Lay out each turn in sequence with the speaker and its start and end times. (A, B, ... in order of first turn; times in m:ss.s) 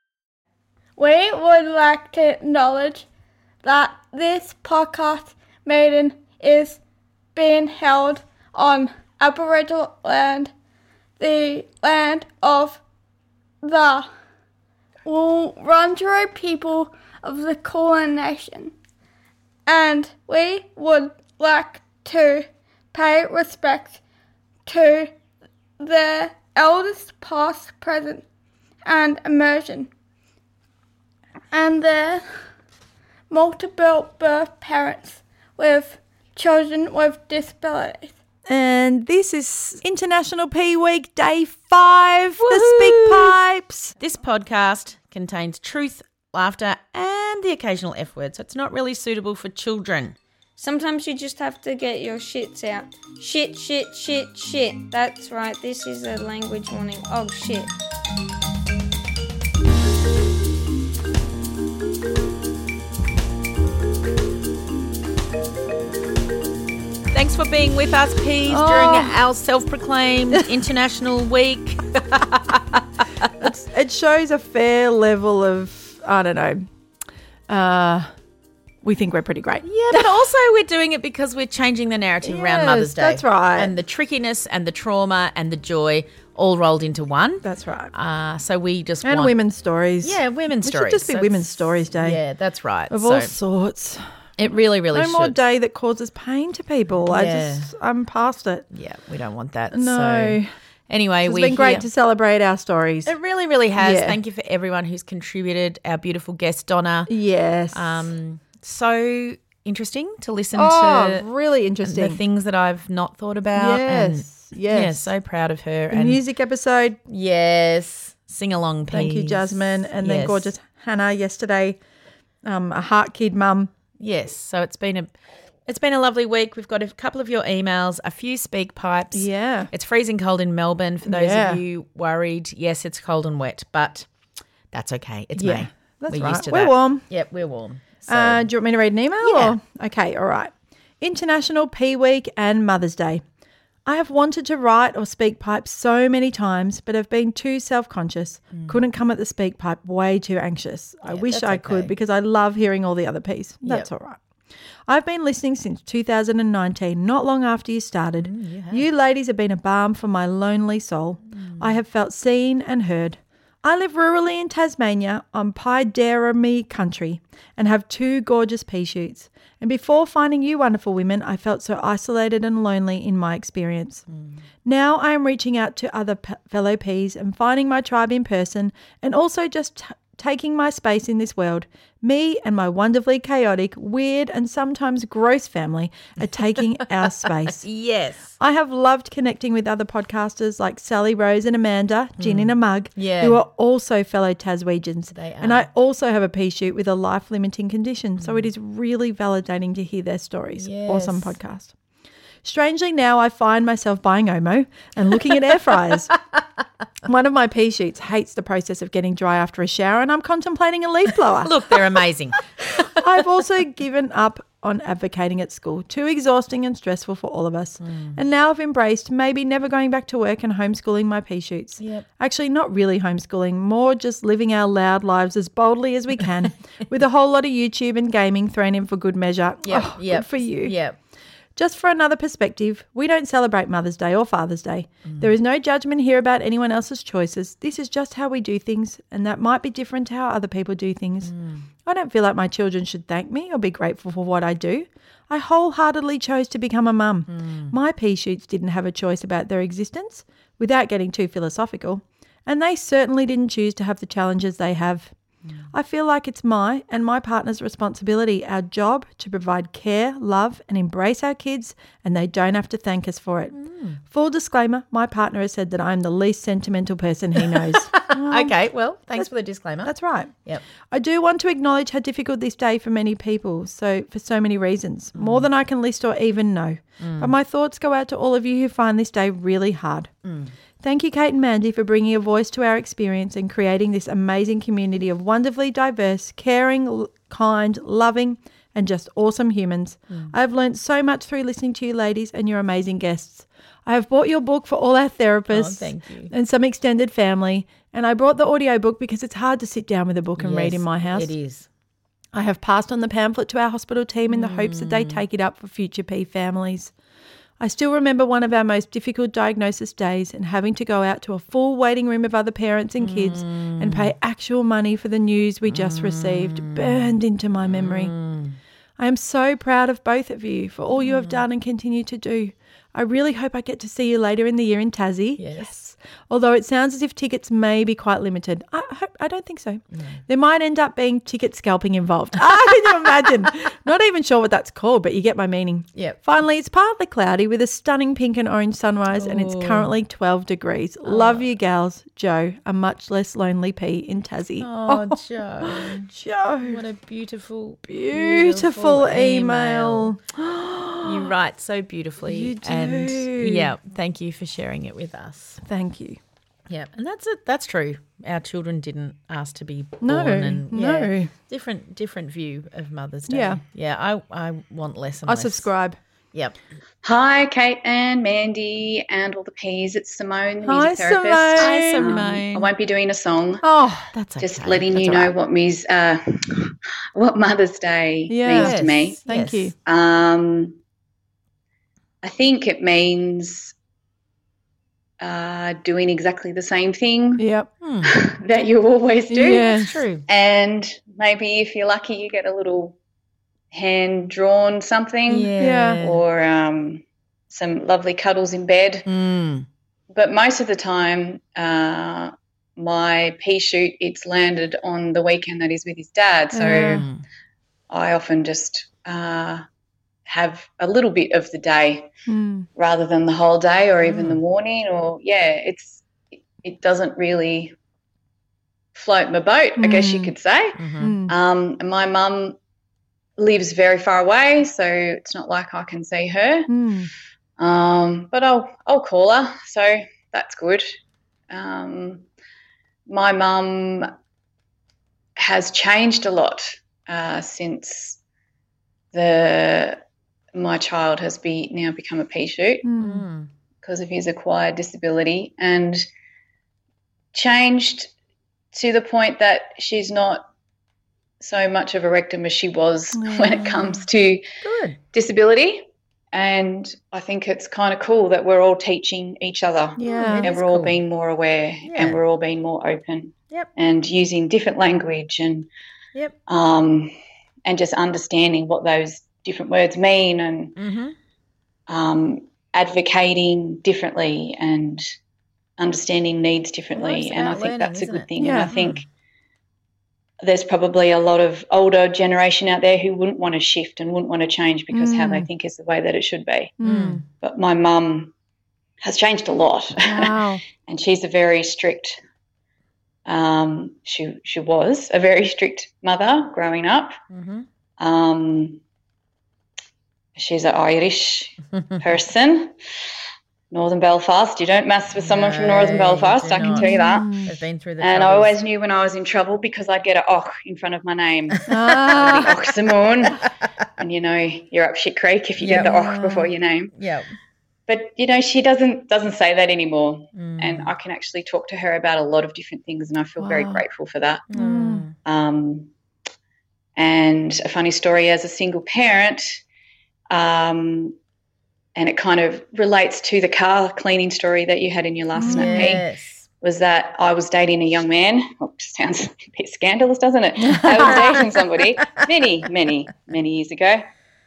0:01.0-0:03.1 A
0:03.6-0:06.8 A
0:07.3-0:10.5 A
0:11.2-0:12.8 A
0:13.6-0:14.1 A
0:15.0-0:18.7 A
0:19.7-0:24.0 A
0:24.6-0:25.1 A
0:25.8-0:28.2 A
0:28.8-0:29.9 A
0:31.5-0:32.4 A
0:33.3-0:38.2 A
0:38.5-0:43.9 B
0:42.4-0:43.4 C
0:44.0-0:50.2 C
0:50.6-0:57.7 D
1:07.1-1:13.3 C
1:08.5-1:09.2 B
1:13.4-1:16.6 B
1:17.5-1:18.1 B
1:18.8-1:20.1 B
1:19.6-1:29.4 C
1:22.2-1:23.7 B
1:27.4-1:27.9 B
1:29.0-1:32.2 B
1:30.0-1:33.3 C
1:32.9-1:34.0 B
1:34.4-1:35.4 C
1:34.9-1:38.6 B
1:37.1-1:37.7 C
1:38.7-1:41.9 C
1:39.7-1:40.5 B
1:41.2-1:43.1 B
1:43.0-1:47.1 C
1:43.8-1:44.2 B
1:47.1-1:48.1 B
1:47.7-1:51.2 C
1:50.5-1:52.2 B
1:51.8-1:56.2 C
1:53.6-1:55.1 B
1:55.9-1:57.0 B
1:57.1-2:00.5 C
1:58.9-2:01.8 B
2:02.4-2:03.7 B
2:04.0-2:05.1 C
2:05.6-2:14.1 C
2:09.1-2:09.7 B
2:11.0-2:11.6 B
2:14.7-2:18.5 C
2:15.4-2:17.0 B
2:18.1-2:23.2 B
2:19.2-2:19.6 C
2:23.8-2:34.2 B
2:28.5-2:28.8 C
2:31.0-2:31.9 C
2:34.9-2:54.0 B
2:38.2-2:38.8 C
2:41.3-2:41.8 C
2:54.1-2:54.4 C
2:54.6-3:07.6 B
3:07.0-3:08.3 C
3:08.4-3:21.7 B
3:12.2-3:13.4 C
3:15.1-3:15.6 C
3:18.2-3:18.5 C
3:20.6-3:21.4 C
3:22.4-3:26.1 B
3:27.0-3:31.8 B
3:31.4-3:32.9 C
3:33.0-3:50.8 B
3:37.8-3:38.2 C
3:41.8-3:42.1 C
3:49.6-3:51.0 C
3:51.6-4:15.1 B
4:01.2-4:01.7 C
4:07.3-4:07.7 C
4:15.4-4:15.7 C
4:15.7-4:28.5 B
4:23.5-4:24.0 C
4:27.4-4:29.9 C
4:29.8-4:30.3 B
4:30.9-4:40.1 B
4:35.1-4:35.4 C
4:37.0-4:37.3 C
4:40.2-4:40.5 C
4:40.8-5:01.3 B
4:50.1-4:50.3 C
4:55.5-4:56.3 C
5:00.4-5:01.7 C
5:02.3-5:06.9 B
5:04.3-5:05.2 C
5:07.6-5:18.1 B
5:13.0-5:14.1 C
5:15.6-5:18.6 C
5:19.0-5:46.8 B
5:21.0-5:21.4 C
5:25.4-5:25.7 C
5:29.9-5:30.2 C
5:35.9-5:36.2 C
5:39.1-5:39.9 C
5:41.0-5:41.4 C
5:44.6-5:46.1 C
5:46.6-5:50.1 C
5:47.8-5:51.3 B
5:51.0-5:55.6 C
5:52.2-5:53.7 B
5:55.6-5:56.2 B
5:56.7-6:05.7 C
6:00.0-6:01.3 B
6:03.3-6:03.6 B
6:05.3-6:06.0 B
6:07.0-6:13.6 E
6:10.6-6:12.4 B
6:11.6-6:12.7 C
6:13.6-6:14.1 B
6:14.1-6:15.3 C
6:14.4-6:19.2 E
6:18.3-6:19.7 B
6:18.5-6:19.7 C
6:19.8-6:20.8 E
6:22.2-6:23.7 E
6:25.2-6:27.4 E
6:27.4-6:27.7 B
6:27.8-6:28.1 C
6:28.0-6:33.0 E
6:29.3-6:30.0 B
6:29.4-6:30.2 C
6:33.7-6:39.1 E
6:35.3-6:36.2 C
6:35.6-6:36.0 B
6:39.0-6:39.7 C
6:40.1-6:47.1 E
6:46.5-6:47.1 B
6:46.6-6:47.2 C
6:47.9-6:49.6 E
6:50.2-6:52.1 E
6:52.3-6:52.7 B
6:52.8-6:56.0 E
6:54.0-6:54.4 C
6:56.6-6:57.7 E
6:58.9-7:02.6 E
6:59.8-7:00.3 B
7:00.8-7:01.2 C
7:01.0-7:01.3 B
7:03.4-7:06.7 E
7:06.7-7:07.1 B
7:07.6-7:11.0 E
7:11.5-7:12.2 E
7:13.1-7:14.1 E
7:15.4-7:18.2 E
7:19.1-7:20.0 E
7:20.5-7:22.8 E
7:22.8-7:23.2 B
7:23.0-7:23.5 C
7:23.8-7:26.0 E
7:27.3-7:28.1 E
7:28.7-7:30.5 E
7:31.4-7:34.5 E
7:33.1-7:33.9 B
7:33.6-7:34.0 C
7:34.6-7:35.0 C
7:35.1-7:45.7 E
7:40.0-7:40.5 B
7:40.0-7:41.0 C
7:41.8-7:42.2 C
7:46.5-7:47.1 E
7:47.6-7:50.8 E
7:50.8-7:51.2 C
7:51.9-7:55.1 E
7:55.8-7:59.1 E
7:56.9-7:59.0 C
7:58.4-7:58.7 B
8:00.4-8:06.7 E
8:04.9-8:05.5 B
8:06.8-8:07.2 B
8:06.8-8:07.2 C
8:07.4-8:08.3 E
8:09.0-8:12.2 E
8:10.0-8:10.6 B
8:13.2-8:17.2 E
8:17.3-8:17.6 C
8:18.0-8:18.8 E
8:20.4-8:22.7 E
8:21.7-8:22.0 C
8:23.7-8:27.4 E
8:25.2-8:28.6 C
8:26.6-8:27.5 B
8:28.0-8:33.4 E
8:31.7-8:32.5 B
8:32.1-8:32.5 C
8:34.0-8:36.9 E
8:35.6-8:35.9 C
8:35.6-8:36.5 B
8:36.9-8:37.3 C
8:37.9-8:44.5 E
8:40.3-8:40.9 C
8:43.4-8:43.8 B
8:44.5-8:45.1 C
8:44.5-8:45.0 B
8:45.2-8:45.9 E
8:47.0-8:49.6 E
8:50.3-8:51.2 E
8:52.0-8:56.0 E
8:55.4-8:56.0 B
8:55.4-8:56.5 C
8:56.6-9:04.1 E
9:00.6-9:01.3 B